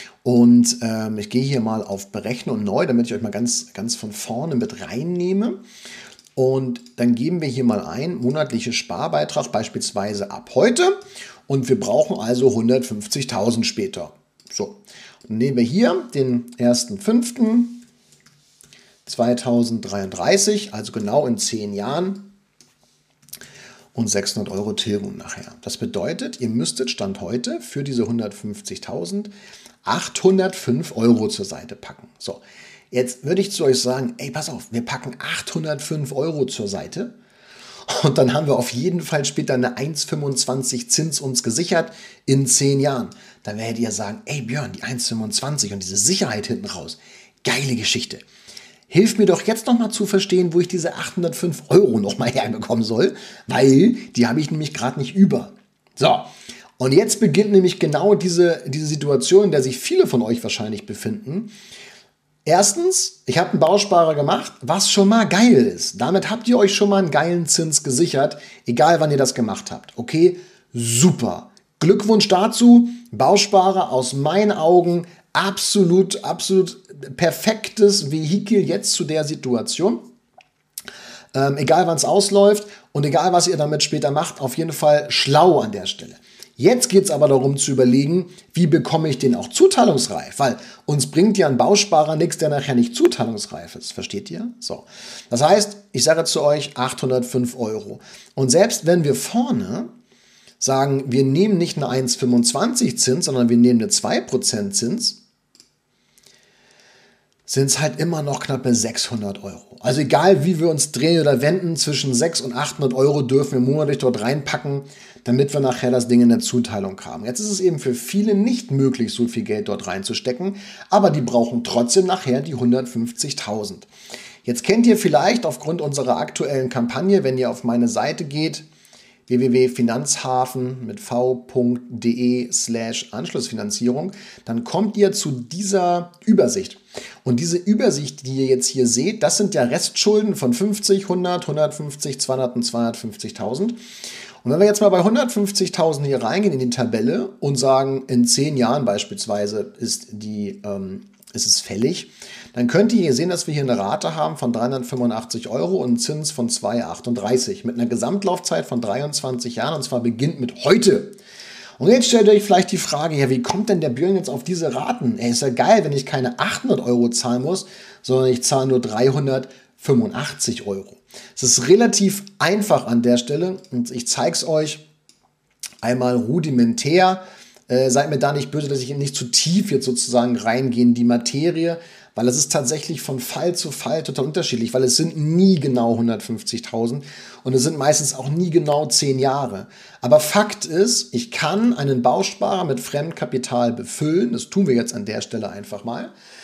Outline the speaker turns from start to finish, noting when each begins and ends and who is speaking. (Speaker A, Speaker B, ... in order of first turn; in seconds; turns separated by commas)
Speaker A: 0.2-5.6, Speaker A: 6.3-17.8, Speaker A: 19.0-22.3, Speaker A: 23.9-29.3, Speaker A: 29.8-37.1, Speaker A: 37.9-48.2, Speaker A: 48.9-61.5, Speaker A: 62.5-80.1, Speaker A: 81.3-99.9, Speaker A: 100.6-105.2, Speaker A: 107.5-123.9, Speaker A: 124.4-128.7, Speaker A: 129.3-143.8, Speaker A: 144.4-161.2, Speaker A: 161.8-174.9, Speaker A: 175.8-196.1